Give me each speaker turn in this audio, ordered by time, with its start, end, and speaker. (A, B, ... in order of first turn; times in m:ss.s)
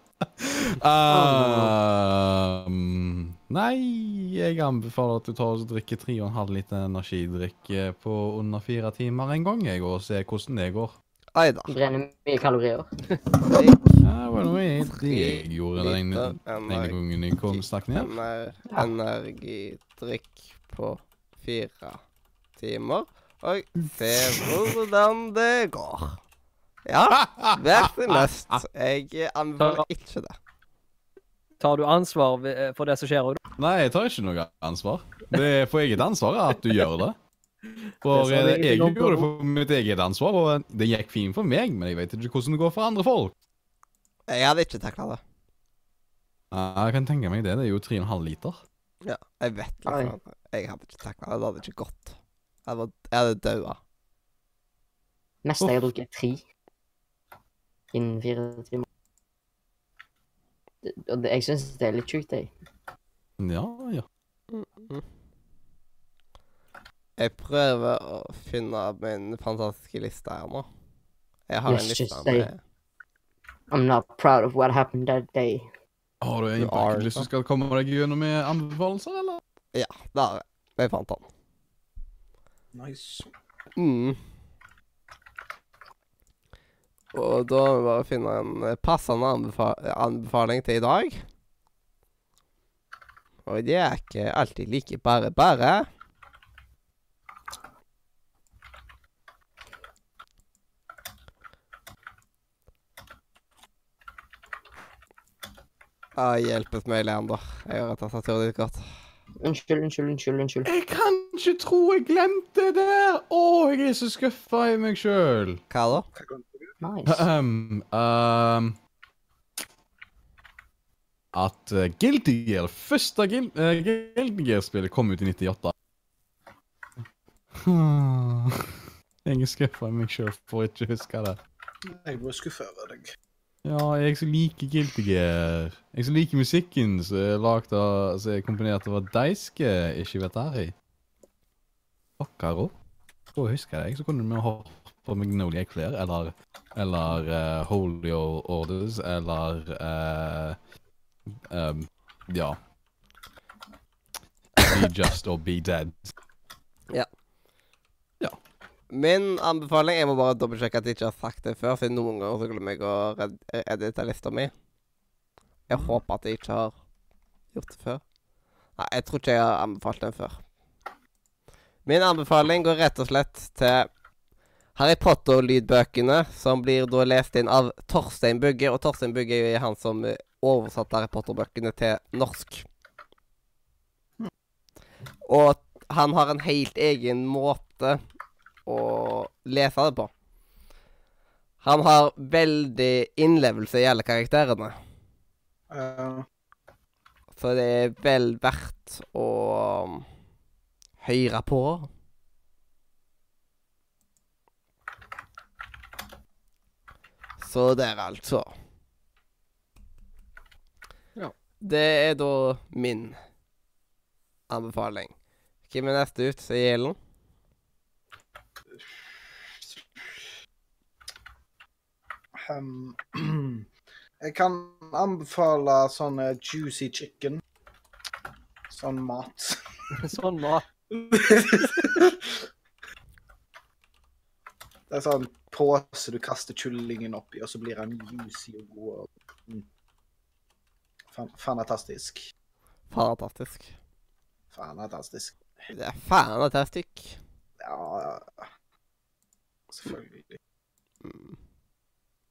0:00.4-0:11.0 A
0:01.1-0:01.7 B
0:11.4-0:11.7 C
0:11.7-0:12.9 B
0:13.4-0:13.8 C
0:14.0-0:18.1 A
0:14.8-0:17.0 C
0:17.5-0:22.0 C
0:22.6-0:26.2 C
0:24.2-0:24.5 A
0:26.9-0:30.4 C
0:27.2-0:28.6 A
0:29.6-0:29.8 D
0:31.6-0:33.4 D
0:33.6-0:37.2 A
0:38.0-0:43.3 A
0:38.1-0:39.3 D
0:44.3-0:45.2 C
0:46.5-0:48.6 A
0:49.0-0:52.2 C
0:49.9-0:50.1 B
0:52.7-0:53.8 C
0:55.4-0:56.4 B
0:57.9-0:58.8 B
1:00.8-1:02.5 B
1:03.4-1:04.0 A
1:04.5-1:05.0 C
1:07.2-1:10.7 C
1:11.5-1:12.6 C
1:11.7-1:12.5 B
1:13.7-1:15.7 B
1:16.2-1:19.4 A
1:16.6-1:17.3 C
1:19.7-1:21.2 C
1:22.7-1:23.3 E
1:23.8-1:24.2 C
1:27.1-1:31.2 C
1:33.5-1:35.9 C
1:46.2-1:48.9 C
1:49.4-1:50.7 B
1:50.6-1:55.6 A
1:55.7-1:56.1 C
1:56.1-1:56.7 E
1:56.8-1:57.3 B
1:57.1-1:58.8 A
2:01.3-2:05.7 A
2:07.6-2:11.4 A
2:11.9-2:13.2 E
2:13.6-2:20.7 A
2:22.2-2:22.7 A
2:23.4-2:30.6 A
2:31.5-2:32.6 A
2:34.6-2:36.1 A
2:38.9-2:44.5 C
2:45.7-2:46.7 C
2:47.5-2:48.0 C
2:48.8-2:50.4 C
2:51.9-2:53.9 C
2:54.8-3:02.6 C
3:05.3-3:08.0 C
3:08.7-3:10.1 C
3:11.6-3:14.7 C
3:15.7-3:16.2 E
3:17.4-3:20.1 C
3:21.0-3:21.9 C
3:27.4-3:28.5 C
3:31.6-3:33.2 C
3:34.5-3:35.1 C
3:35.7-3:37.0 C
3:38.7-3:40.3 E
3:42.4-3:43.7 E
3:44.2-3:47.4 E
3:48.7-3:49.6 E
3:50.0-3:50.7 D
3:50.9-3:52.5 E
3:54.9-3:59.7 E
4:01.1-4:02.3 E
4:02.9-4:03.8 C
4:04.5-4:05.4 E
4:05.7-4:07.2 C
4:07.6-4:08.5 E
4:09.7-4:10.4 E
4:11.0-4:11.4 C